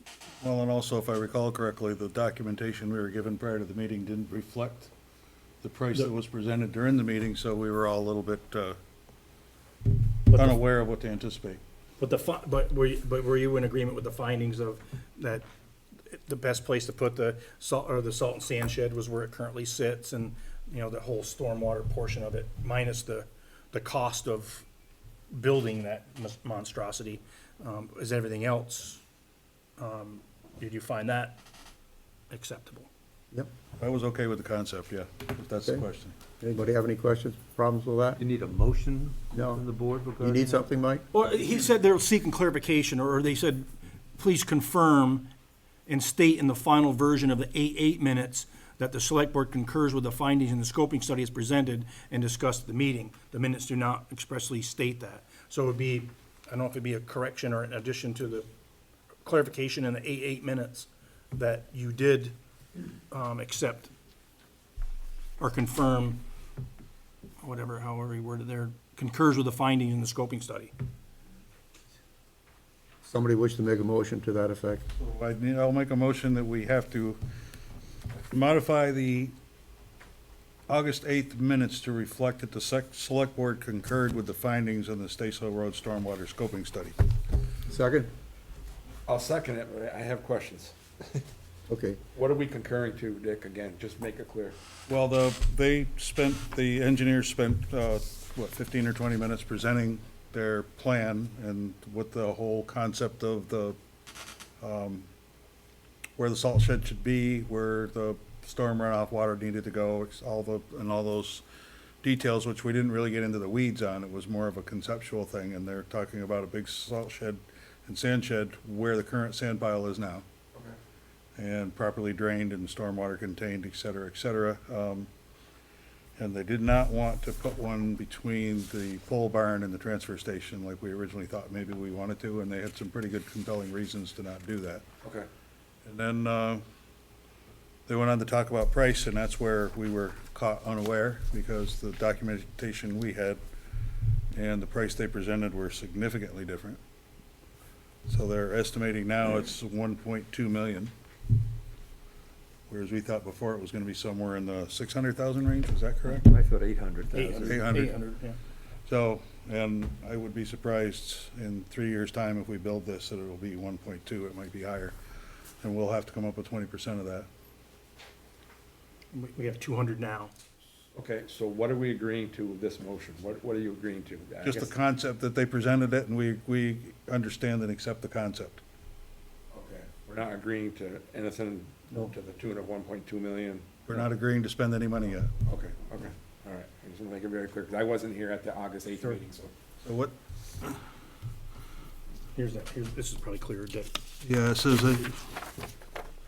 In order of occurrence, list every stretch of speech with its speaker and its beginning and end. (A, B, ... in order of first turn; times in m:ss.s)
0:00.4-0:04.9 A
0:05.6-0:08.8 A
0:10.3-0:10.6 B
0:10.3-0:11.6 A
0:12.0-0:15.4 B
0:16.1-0:24.6 B
0:25.3-0:29.0 B
0:29.8-0:31.4 B
0:32.3-0:32.9 B
0:33.8-0:36.2 A
0:36.4-0:38.2 C
0:38.2-0:40.7 D
0:39.3-0:39.6 C
0:40.2-0:41.0 C
0:41.1-0:43.7 B
0:44.2-0:45.3 B
0:45.9-0:58.5 B
0:59.2-1:02.4 B
1:03.1-1:03.9 B
1:05.4-1:06.2 B
1:07.4-1:10.7 B
1:13.0-1:14.8 C
1:15.0-1:17.2 A
1:18.3-1:19.3 A
1:20.7-1:27.0 A
1:27.7-1:28.1 C
1:29.1-1:31.2 E
1:31.7-1:32.0 C
1:32.2-1:34.6 E
1:34.9-1:43.8 A
1:44.6-1:45.1 A
1:46.2-1:51.4 A
1:52.0-2:00.2 A
2:01.4-2:05.1 A
2:06.2-2:14.8 A
2:15.8-2:16.6 A
2:17.9-2:23.4 A
2:24.3-2:26.8 A
2:28.1-2:30.9 A
2:32.7-2:36.2 A
2:36.1-2:37.6 D
2:37.1-2:38.4 B
2:37.4-2:38.0 A
2:38.9-2:45.0 A
2:45.6-2:47.3 A
2:49.1-2:50.3 B
2:51.0-2:54.7 E
2:54.4-2:58.6 A
2:59.5-3:04.1 E
3:03.9-3:05.3 A
3:05.5-3:09.5 E
3:09.8-3:10.2 A
3:12.4-3:13.9 B
3:14.2-3:15.2 A